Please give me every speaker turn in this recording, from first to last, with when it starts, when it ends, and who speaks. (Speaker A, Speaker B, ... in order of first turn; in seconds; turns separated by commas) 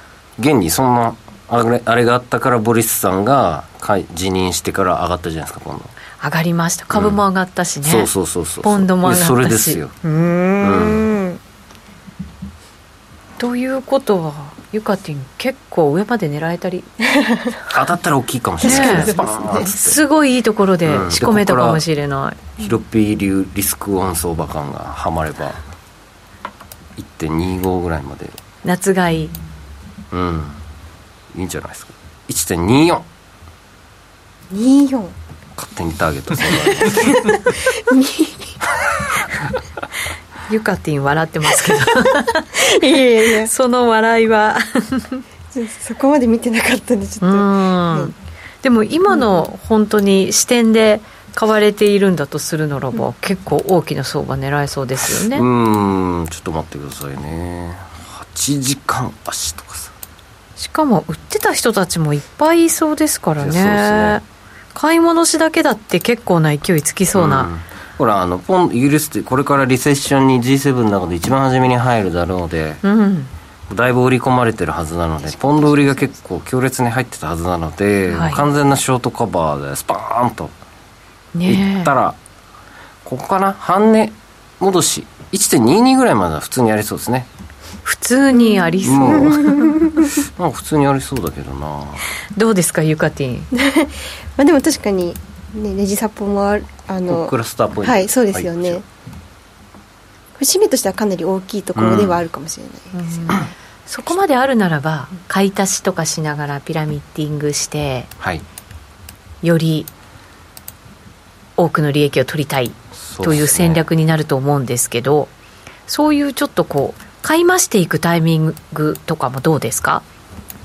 Speaker A: 0.4-5.9, Speaker B: 6.2-8.1, Speaker A: 6.9-7.2, Speaker A: 7.8-9.9, Speaker B: 8.6-11.1, Speaker A: 10.6-11.1, Speaker B: 13.4-16.9, Speaker C: 17.2-17.5, Speaker A: 17.7-20.0, Speaker C: 18.6-19.7, Speaker B: 18.6-22.6, Speaker A: 20.8-21.8, Speaker A: 22.6-25.6, Speaker A: 27.0-28.3, Speaker B: 28.6-29.3, Speaker A: 30.1-30.6, Speaker A: 31.3-33.0, Speaker C: 34.5-35.1, Speaker A: 35.6-37.5, Speaker C: 36.7-38.6, Speaker B: 40.5-42.6, Speaker C: 42.5-43.5, Speaker B: 43.4-45.2, Speaker C: 45.5-48.1, Speaker B: 47.2-55.4, Speaker A: 55.3-59.9, Speaker B: 60.6-67.5, Speaker A: 63.4-64.2, Speaker A: 67.1-72.8, Speaker B: 72.8-73.3, Speaker A: 73.7-80.5, Speaker C: 75.2-76.2, Speaker B: 78.1-78.4, Speaker B: 81.3-81.9, Speaker A: 81.5-82.2, Speaker A: 83.0-87.3, Speaker B: 87.8-89.9, Speaker C: 88.4-90.1, Speaker A: 88.8-92.1, Speaker B: 92.3-93.5, Speaker C: 93.5-98.8, Speaker A: 97.1-98.8, Speaker C: 100.4-103.4, Speaker A: 101.7-102.2, Speaker B: 102.9-108.1, Speaker B: 109.4-109.9, Speaker B: 111.6-115.3, Speaker A: 113.1-113.8, Speaker B: 115.9-120.0